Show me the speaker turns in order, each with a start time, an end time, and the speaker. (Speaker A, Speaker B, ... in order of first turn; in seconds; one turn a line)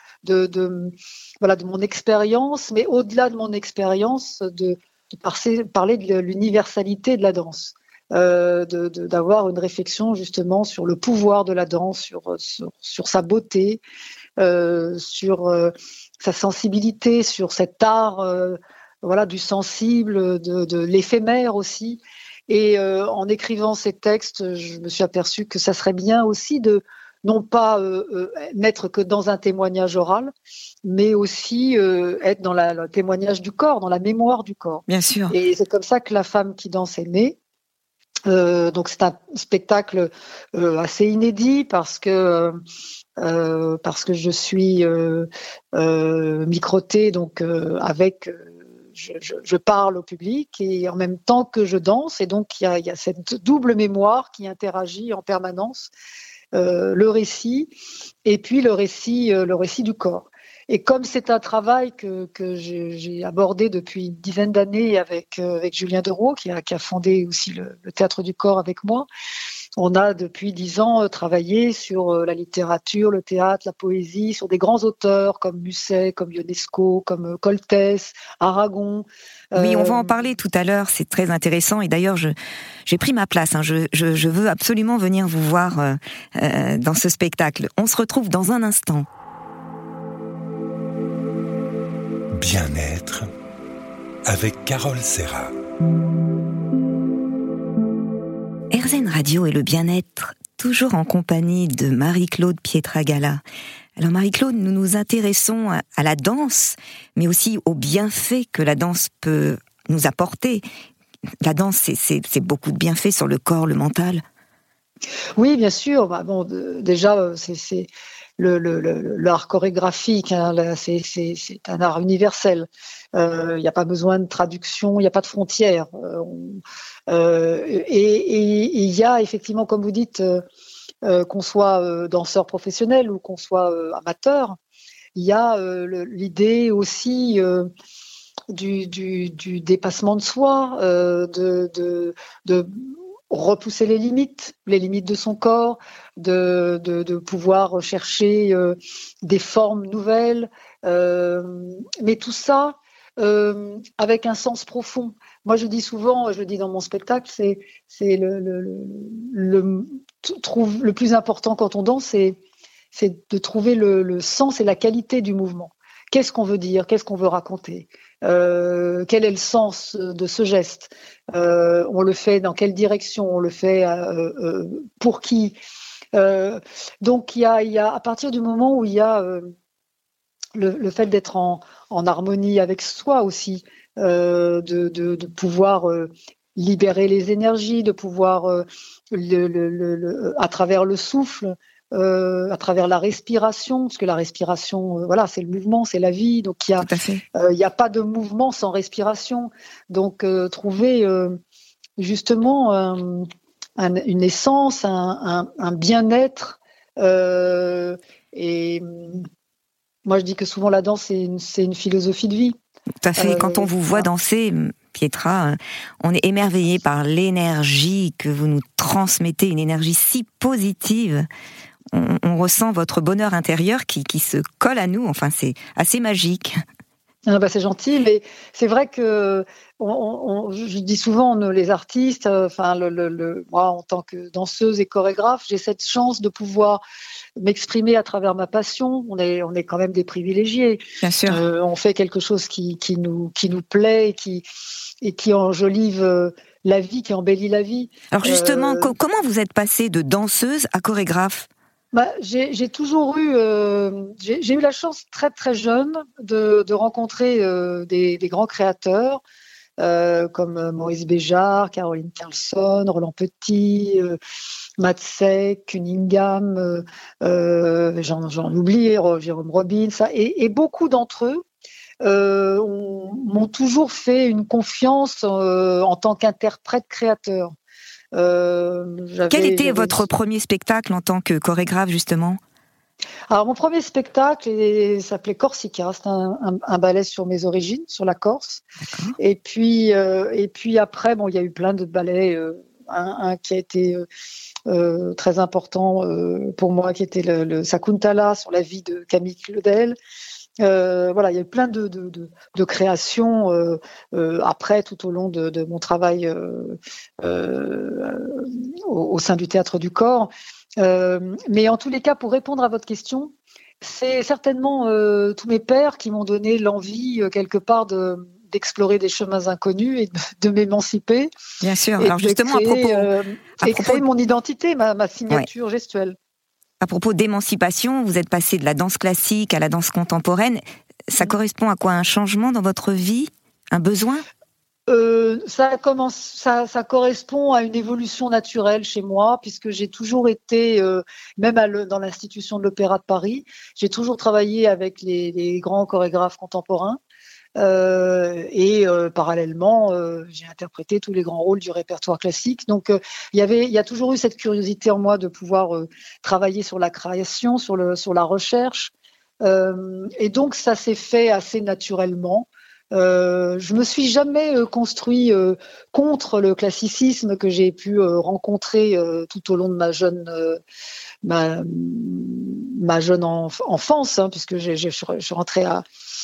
Speaker A: 0.2-13.8
Speaker A: 14.4-30.3
Speaker A: 30.8-37.4
Speaker B: 34.9-35.3
Speaker A: 38.3-42.5
Speaker A: 43.2-55.9
Speaker A: 56.5-57.7
Speaker A: 58.2-69.1
Speaker A: 69.8-80.2
Speaker B: 79.5-82.3
Speaker B: 82.8-89.1
Speaker C: 92.3-93.3
Speaker C: 94.2-95.5
Speaker B: 98.7-103.4
Speaker B: 104.0-110.6
Speaker B: 111.4-114.2
Speaker A: 115.4-130.4
Speaker A: 131.0-134.6
Speaker A: 135.1-137.7
Speaker A: 138.5-162.4
Speaker A: 162.9-175.6
Speaker A: 176.1-179.5
Speaker A: 180.5-201.4
Speaker B: 196.8-197.2
Speaker A: 202.0-209.3
Speaker A: 210.1-212.6
Speaker B: 213.0-221.3
Speaker A: 213.2-214.1
Speaker B: 221.9-226.6
Speaker A: 227.2-236.8
Speaker A: 237.4-244.4
Speaker B: 241.0-241.4
Speaker A: 245.0-248.9
Speaker B: 248.1-251.5
Speaker A: 251.9-259.2
Speaker A: 259.8-264.2
Speaker A: 264.8-271.4
Speaker A: 272.0-277.5
Speaker A: 278.1-280.0
Speaker B: 279.3-282.4
Speaker A: 283.3-288.6
Speaker B: 288.9-289.1
Speaker A: 289.2-294.1
Speaker A: 294.7-299.9
Speaker A: 300.6-321.3
Speaker B: 321.6-324.0
Speaker A: 322.0-326.1
Speaker B: 326.8-334.2
Speaker A: 334.9-347.0
Speaker A: 347.6-358.9
Speaker A: 359.4-370.6
Speaker A: 371.2-375.8